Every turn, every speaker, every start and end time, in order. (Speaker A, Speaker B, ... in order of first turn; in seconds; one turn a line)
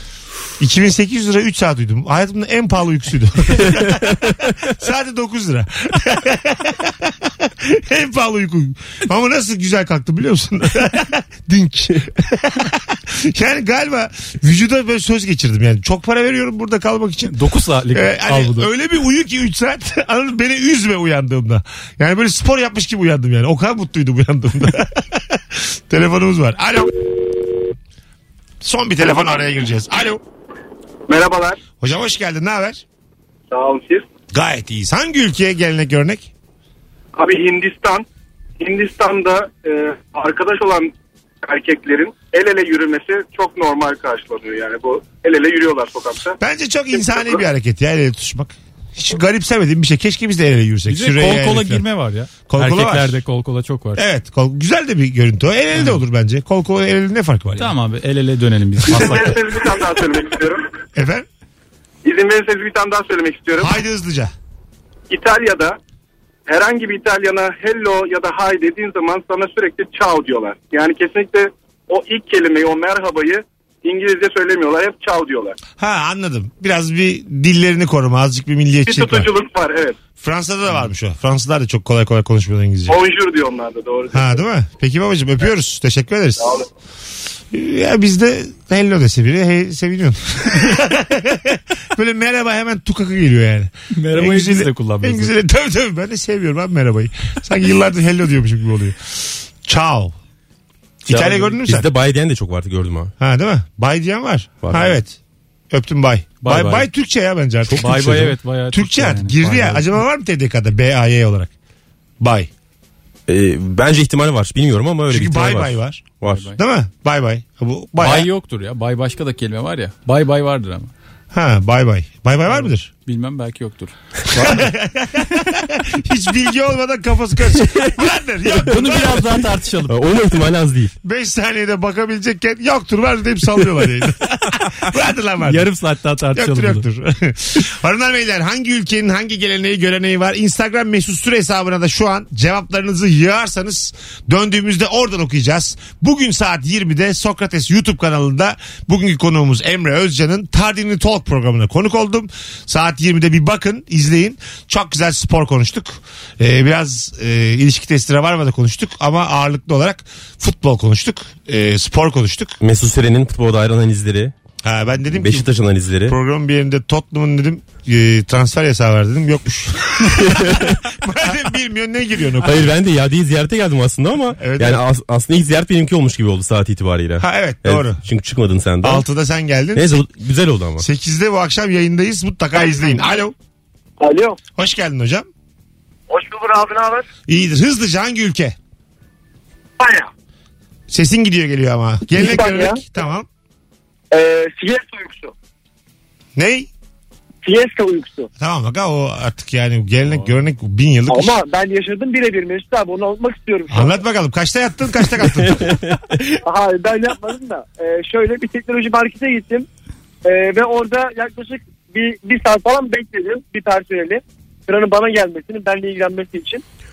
Speaker A: 0.6-17.3
Speaker B: 17.3-18.7
Speaker A: 17.9-26.9
Speaker A: 28.6-30.2
Speaker C: 31.1-31.6
Speaker A: 31.8-32.8
Speaker C: 33.5-34.0
Speaker A: 34.3-36.3
Speaker C: 37.1-38.0
Speaker C: 38.6-46.4
Speaker A: 46.4-51.9
Speaker C: 46.9-47.4
Speaker B: 50.9-54.0
Speaker A: 52.5-53.2
Speaker A: 54.0-57.7
Speaker B: 57.6-59.4
Speaker C: 58.9-60.6
Speaker A: 60.9-61.2
Speaker C: 62.0-63.8
Speaker A: 63.6-64.3
Speaker C: 65.1-65.8
Speaker C: 66.5-75.5
Speaker A: 75.8-79.3
Speaker C: 78.8-80.0
Speaker A: 80.2-83.0
Speaker C: 82.9-84.4
Speaker A: 84.1-86.5
Speaker C: 86.4-86.7
Speaker A: 87.5-100.1
Speaker B: 93.9-95.3
Speaker A: 101.0-101.9
Speaker D: 101.1-103.1
Speaker A: 103.2-105.2
Speaker D: 104.6-105.0
Speaker A: 105.7-111.5
Speaker B: 106.4-106.9
Speaker B: 107.7-110.0
Speaker A: 112.2-112.5
Speaker D: 113.3-116.5
Speaker A: 115.1-118.3
Speaker B: 116.2-116.6
Speaker B: 118.0-120.9
Speaker A: 121.3-122.9
Speaker B: 122.5-124.7
Speaker A: 124.4-129.4
Speaker B: 128.6-129.9
Speaker D: 129.9-130.9
Speaker A: 131.0-135.7
Speaker B: 135.4-136.8
Speaker A: 136.3-162.6
Speaker D: 162.6-164.3
Speaker A: 164.6-165.5
Speaker D: 165.1-166.2
Speaker A: 166.1-172.7
Speaker D: 170.2-170.8
Speaker D: 172.4-179.1
Speaker A: 174.4-174.8
Speaker A: 177.2-178.0
Speaker A: 178.8-179.9
Speaker D: 179.7-180.8
Speaker A: 180.8-183.3
Speaker E: 184.0-184.4
Speaker A: 184.6-185.3
Speaker E: 186.1-187.0
Speaker A: 187.3-188.6
Speaker E: 189.8-190.1
Speaker A: 190.9-193.3
Speaker E: 192.1-192.8
Speaker E: 194.1-195.3
Speaker A: 196.3-196.7
Speaker E: 197.4-198.3
Speaker A: 198.4-201.4
Speaker E: 201.1-204.0
Speaker A: 203.7-205.8
Speaker D: 205.6-206.0
Speaker E: 206.4-209.7
Speaker E: 210.2-216.6